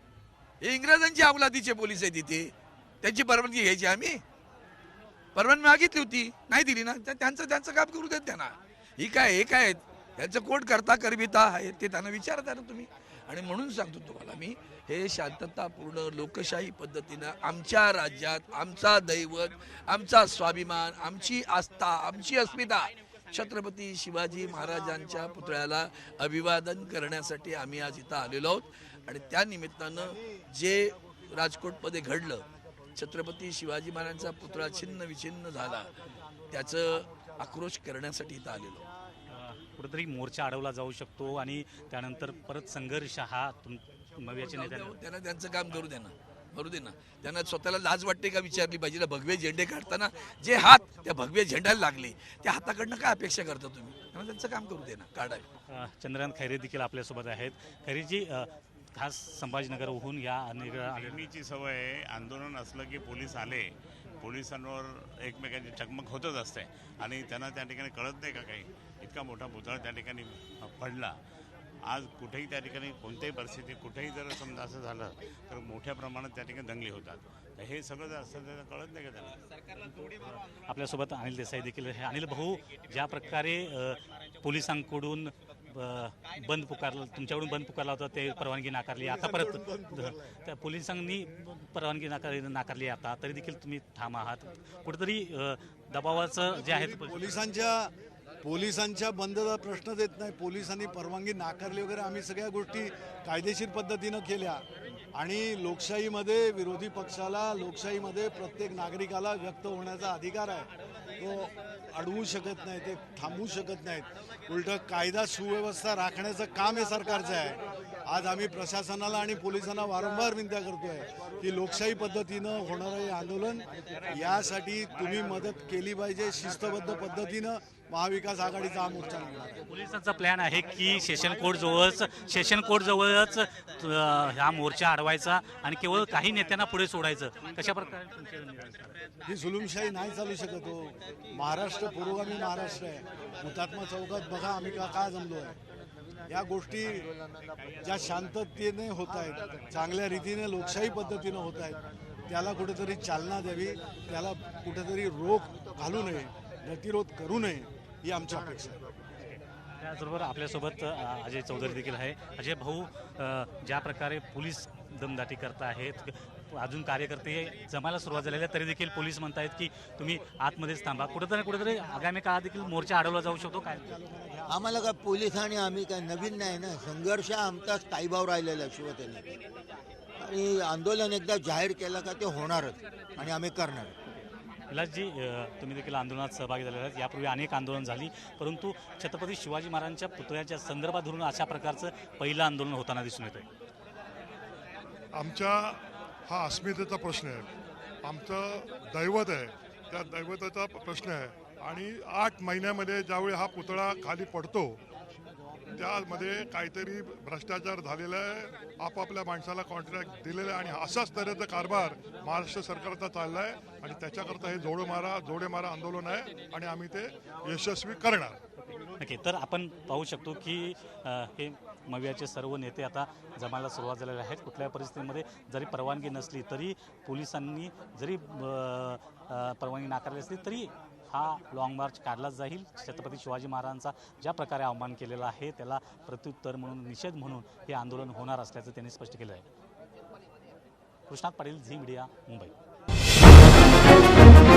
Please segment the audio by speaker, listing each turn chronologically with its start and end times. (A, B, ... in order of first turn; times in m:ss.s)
0:00.6-0:04.2 A
0:05.4-0:32.4 A
0:33.0-0:35.9 A
0:36.5-0:38.9 A
0:39.3-0:45.0 B
0:44.4-0:55.5 A
0:55.7-1:01.3 B
1:00.9-1:11.2 C
1:11.9-1:19.4 C
1:19.9-1:37.4 B
1:29.0-1:30.2 D
1:36.5-2:09.6 D
2:09.7-2:19.0 B
2:19.3-2:25.6 D
2:26.3-2:27.1 D
2:27.8-2:38.9 D
2:39.3-2:53.9 B
2:53.0-2:54.9 D
2:54.5-2:59.4 E
3:00.2-3:03.9 E
3:04.7-3:13.5 B
3:15.1-3:17.5 F
3:18.0-3:24.8 F
3:25.8-3:38.4 F
3:39.0-3:59.5 B
4:01.1-4:02.5 B